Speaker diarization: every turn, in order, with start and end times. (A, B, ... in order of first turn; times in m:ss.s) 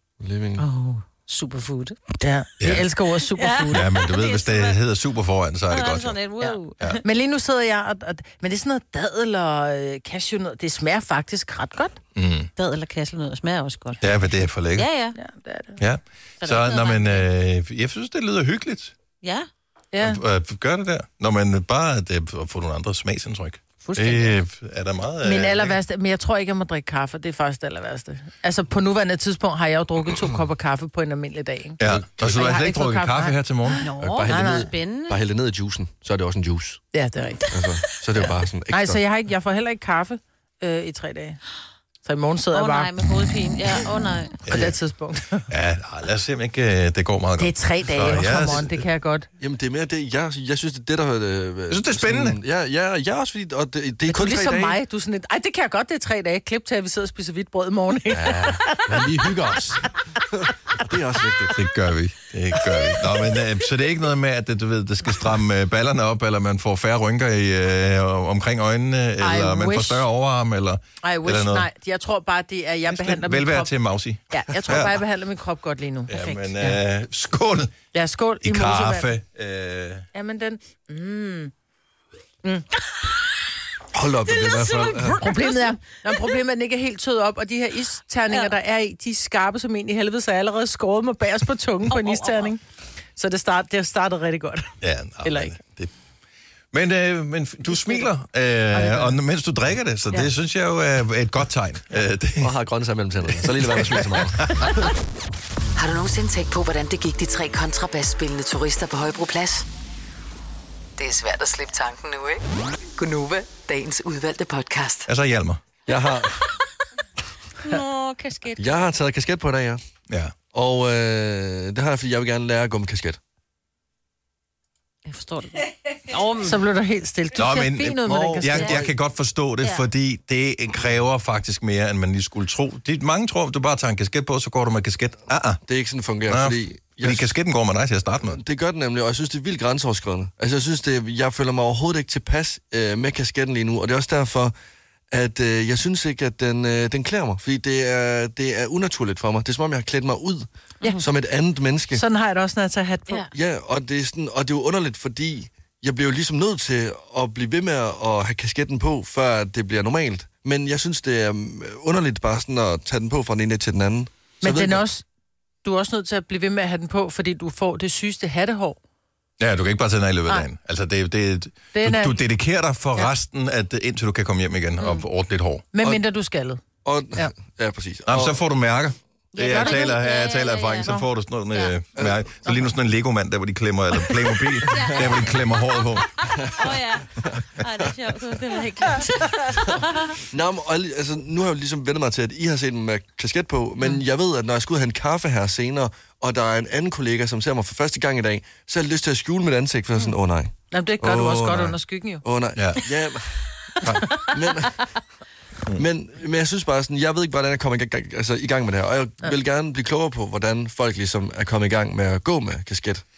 0:00.2-0:00.6 A
0:00.6-0:02.0 B
0:02.1-0:03.8 C
0:02.6-0:02.9 D
0:03.3-0:04.8 B
0:03.7-0:06.2 D
0:05.7-0:07.0 B
0:06.4-0:12.0 C
0:12.1-0:12.5 D
0:12.6-0:14.0 B
0:14.0-0:14.9 D
0:14.8-0:15.2 B
0:15.2-0:15.8 C
0:15.8-0:18.9 D
0:16.4-0:17.2 B
0:19.2-0:19.5 B
0:19.9-0:20.2 C
0:20.0-0:25.8 D
0:23.8-0:24.3 C
0:25.2-0:34.7 C
0:31.8-0:33.9 D
0:31.8-0:32.4 A
0:33.8-0:35.2 B
0:34.0-0:36.8 A
0:36.9-0:37.5 C
0:37.5-0:39.0 A
0:38.7-0:41.4 C
0:42.0-0:42.9 C
0:42.5-0:44.4 B
0:44.4-0:44.7 D
0:44.4-0:45.5 C
0:45.5-0:48.8 D
0:47.4-0:49.3 C
0:49.4-0:54.8 A
0:51.7-0:52.4 D
0:54.1-0:59.2 C
0:58.1-1:01.6 A
1:01.5-1:11.7 D
1:09.2-1:10.1 C
1:11.0-1:13.7 C
1:12.9-1:15.0 D
1:14.3-1:16.8 C
1:16.1-1:17.7 D
1:17.9-1:19.1 C
1:18.4-1:20.0 D
1:20.1-1:21.5 C
1:23.9-1:25.2 A
1:24.4-1:25.4 B
1:25.1-1:32.6 C
1:31.9-1:32.5 B
1:33.2-1:35.6 C
1:34.8-1:35.9 D
1:36.7-1:42.5 D
1:37.7-1:38.0 C
1:38.7-1:39.2 C
1:42.4-1:44.9 A
1:43.3-1:44.8 D
1:45.8-1:49.6 E
1:51.0-1:52.4 E
1:53.0-1:55.1 E
1:55.1-1:55.6 D
1:55.9-1:56.5 A
1:57.6-1:58.6 B
1:58.6-1:59.8 A
2:00.1-2:00.3 D
2:00.5-2:03.2 A
2:06.0-2:06.6 B
2:06.4-2:08.8 C
2:07.3-2:15.6 D
2:08.0-2:08.9 A
2:15.7-2:17.3 A
2:16.3-2:18.4 D
2:18.3-2:24.5 A
2:25.1-2:30.5 A
2:31.0-2:32.0 A
2:31.9-2:33.2 C
2:33.3-2:44.8 A
2:44.4-2:45.0 C
2:45.6-2:48.8 C
2:49.4-2:55.6 D
2:51.7-2:52.2 C
2:55.7-2:56.6 C
2:56.8-2:58.4 A
2:58.0-3:06.1 D
2:59.3-3:01.0 B
2:59.4-2:59.7 C
3:02.0-3:02.2 A
3:04.7-3:10.2 B
3:04.9-3:05.1 A
3:06.4-3:07.4 A
3:09.6-3:24.9 A
3:20.7-3:22.2 C
3:22.5-3:22.8 D
3:23.8-3:24.1 D
3:25.8-3:33.0 A